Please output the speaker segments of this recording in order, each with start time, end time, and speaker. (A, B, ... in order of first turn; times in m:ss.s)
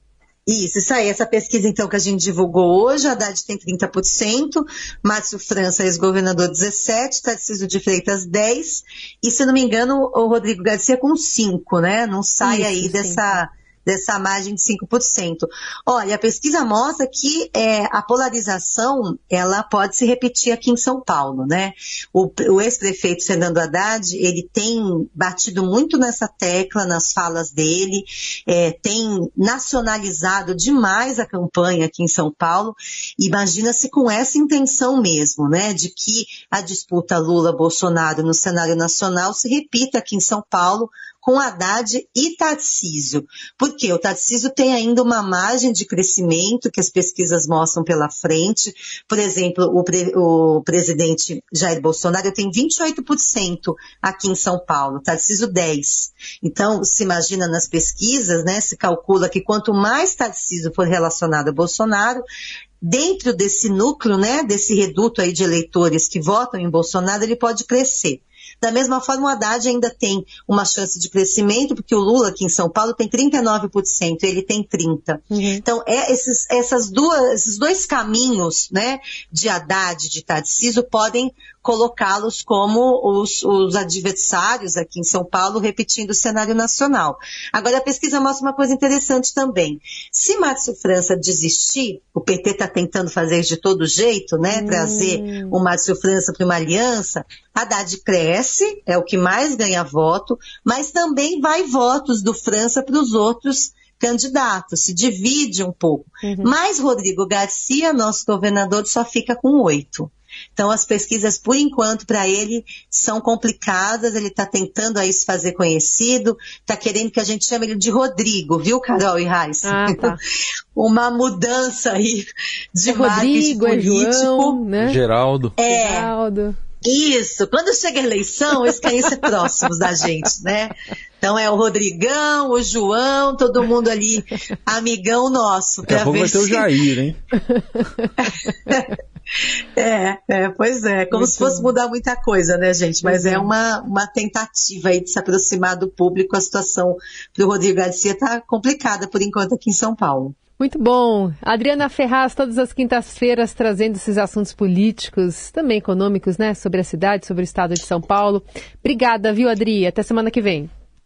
0:00.5-1:02.2 A
0:12.4-0:13.4 B
1:02.8-2:00.2 A
1:15.3-1:15.6 B
1:34.5-1:35.6 B
1:46.2-1:46.5 B
1:59.6-2:00.2 B
2:00.7-2:04.6 A
2:02.9-2:05.0 B
2:04.8-2:05.5 C
2:05.6-2:06.1 A
2:05.7-2:06.6 B
2:06.8-2:16.7 A
2:08.6-2:09.1 B
2:15.9-2:17.2 C
2:17.4-2:18.7 B
2:18.2-2:18.9 A
2:19.7-2:30.4 A
2:21.1-2:21.7 B
2:23.0-2:23.5 B
2:30.6-2:40.7 B